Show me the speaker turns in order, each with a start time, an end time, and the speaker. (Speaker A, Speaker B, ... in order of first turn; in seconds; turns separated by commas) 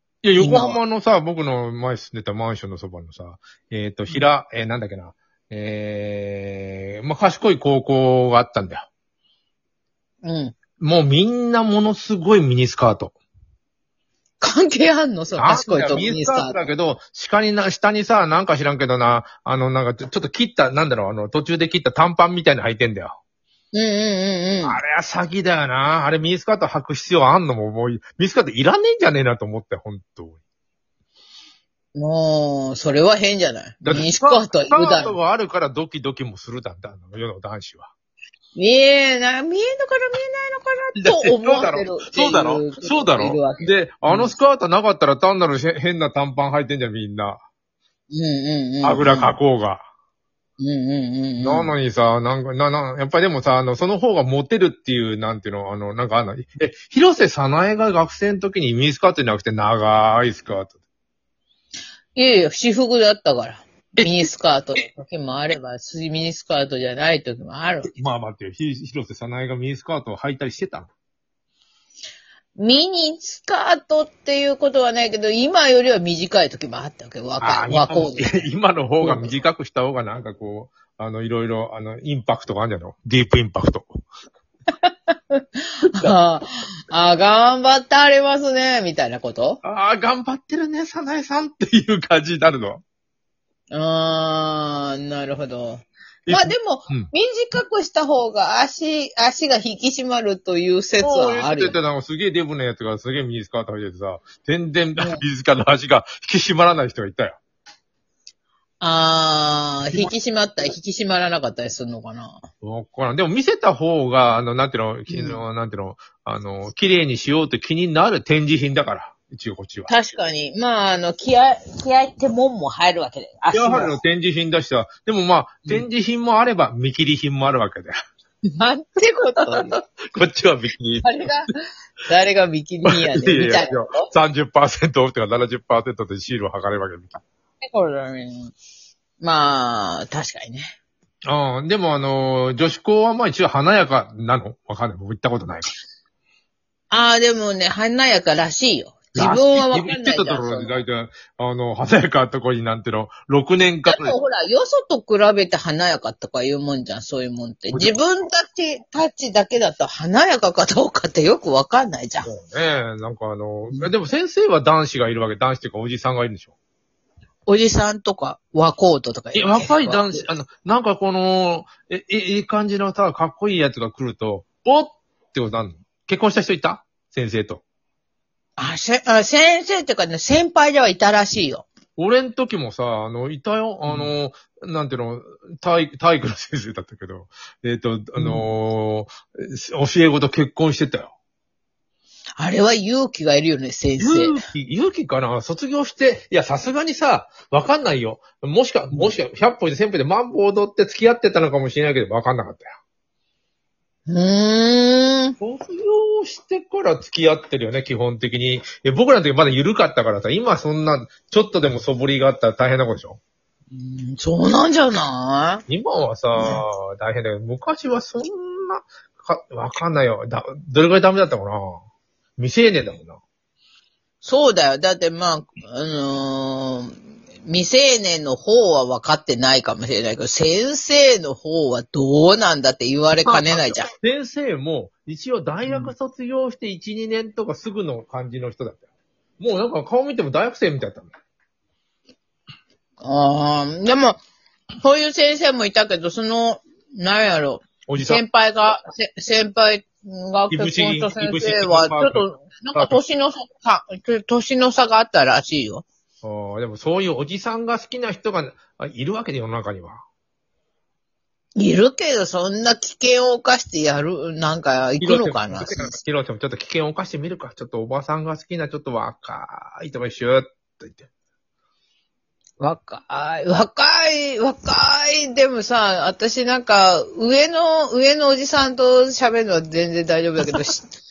Speaker A: 0.2-8.9, Speaker B: 0.4-0.8, Speaker B: 10.2-10.6, Speaker A: 10.8-13.1, Speaker B: 14.4-16.6, Speaker A: 15.4-23.1, Speaker B: 23.7-24.8, Speaker A: 24.6-30.4, Speaker B: 31.9-35.1, Speaker A: 33.8-37.9, Speaker B: 38.5-44.3, Speaker A: 41.0-47.4, Speaker B: 48.1-49.4, Speaker A: 48.8-49.8, Speaker B: 50.6-51.7, Speaker A: 51.4-60.7, Speaker B: 62.1-67.9, Speaker A: 67.9-70.9, Speaker B: 72.5-78.5, Speaker A: 77.4-84.0, Speaker B: 79.0-79.3, Speaker B: 84.8-89.6, Speaker A: 89.6-92.8, Speaker B: 93.7-101.8, Speaker A: 96.2-97.1, Speaker A: 101.0-107.4, Speaker B: 105.0-105.2, Speaker B: 108.8-112.4, Speaker A: 112.6-119.9, Speaker B: 115.1-115.4, Speaker B: 119.9-124.0, Speaker A: 123.5-127.9, Speaker B: 128.5-129.8, Speaker A: 129.5-131.3, Speaker B: 131.0-134.0, Speaker A: 132.8-137.2, Speaker B: 137.6-138.5, Speaker B: 139.2-140.7, Speaker A: 141.2-145.7, Speaker B: 146.9-150.8, Speaker A: 149.1-154.2, Speaker B: 153.8-162.3, Speaker A: 162.2-166.5, Speaker B: 167.4-170.2, Speaker A: 169.3-177.6, Speaker B: 178.6-181.7, Speaker A: 182.0-191.1, Speaker B: 183.8-184.1, Speaker B: 188.2-188.5, Speaker B: 192.4-194.4, Speaker A: 194.0-202.7, Speaker B: 204.1-205.3, Speaker A: 205.4-213.2, Speaker B: 213.7-215.6, Speaker A: 215.7-221.8, Speaker B: 216.4-216.6, Speaker A: 222.4-223.2, Speaker B: 224.2-233.9, Speaker A: 233.2-238.8, Speaker B: 235.6-235.9, Speaker A: 239.4-241.1, Speaker B: 243.0-244.2, Speaker B: 244.8-255.8, Speaker A: 247.9-248.2, Speaker A: 250.5-253.0, Speaker A: 256.2-260.0, Speaker B: 261.6-265.9, Speaker A: 265.0-271.1, Speaker B: 272.6-280.9